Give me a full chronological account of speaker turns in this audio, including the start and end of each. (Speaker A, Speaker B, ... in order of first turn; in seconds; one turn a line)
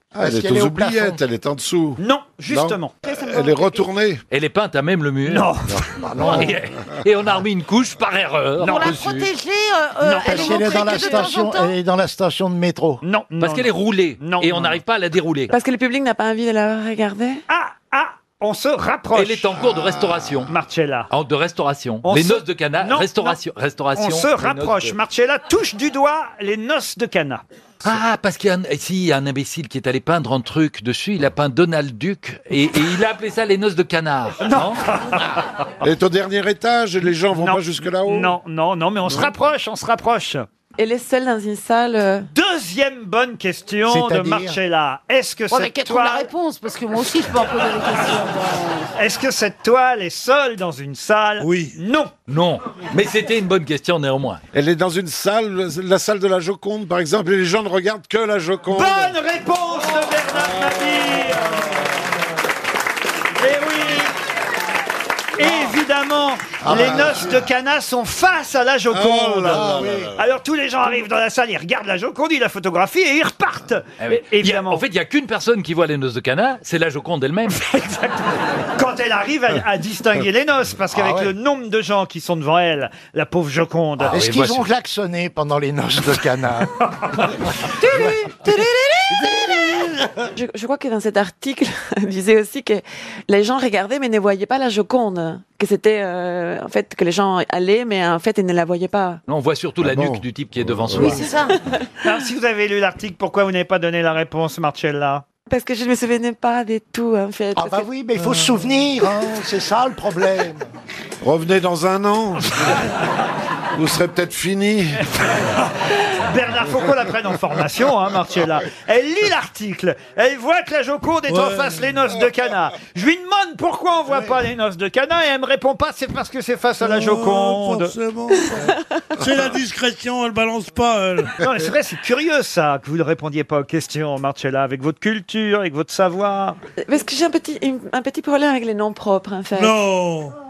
Speaker A: 0.2-4.2
Speaker B: 0.2-1.2
Speaker C: 2.0-3.0
Speaker D: 4.3-5.5
Speaker C: 5.3-6.4
Speaker A: 5.8-6.2
Speaker D: 6.2-9.2
Speaker C: 8.6-9.0
Speaker E: 8.6-11.7
Speaker C: 10.0-10.8
Speaker B: 10.2-13.0
Speaker C: 13.0-14.8
Speaker D: 13.4-15.5
Speaker F: 15.5-17.4
Speaker C: 17.5-19.6
Speaker D: 19.1-20.5
Speaker C: 20.5-21.1
Speaker D: 21.1-24.9
Speaker C: 22.0-23.4
Speaker C: 23.9-27.4
Speaker D: 27.8-34.8
Speaker C: 34.4-35.2
Speaker A: 35.8-38.4
Speaker C: 37.4-40.5
Speaker F: 40.8-42.3
Speaker C: 42.3-46.3
Speaker B: 43.9-44.5
Speaker E: 45.5-48.5
Speaker C: 49.0-52.1
Speaker G: 51.4-51.7
Speaker D: 52.3-54.4
Speaker A: 54.5-59.2
Speaker C: 58.7-61.8
Speaker C: 63.4-64.1
Speaker C: 65.4-74.8
Speaker B: 66.7-67.0
Speaker A: 68.9-70.1
Speaker B: 69.5-70.1
Speaker D: 74.0-77.6
Speaker C: 77.5-84.3
Speaker D: 84.1-84.7
Speaker B: 84.1-86.7
Speaker F: 90.3-99.2
Speaker D: 99.3-101.3
Speaker A: 99.9-101.1
Speaker C: 102.0-105.2
Speaker F: 105.5-107.9
Speaker B: 107.6-110.6
Speaker A: 111.2-112.7
Speaker A: 113.8-115.0
Speaker C: 115.5-128.0
Speaker G: 121.3-121.9
Speaker G: 126.8-131.3
Speaker C: 131.4-136.6
Speaker F: 136.8-139.8
Speaker G: 139.6-140.3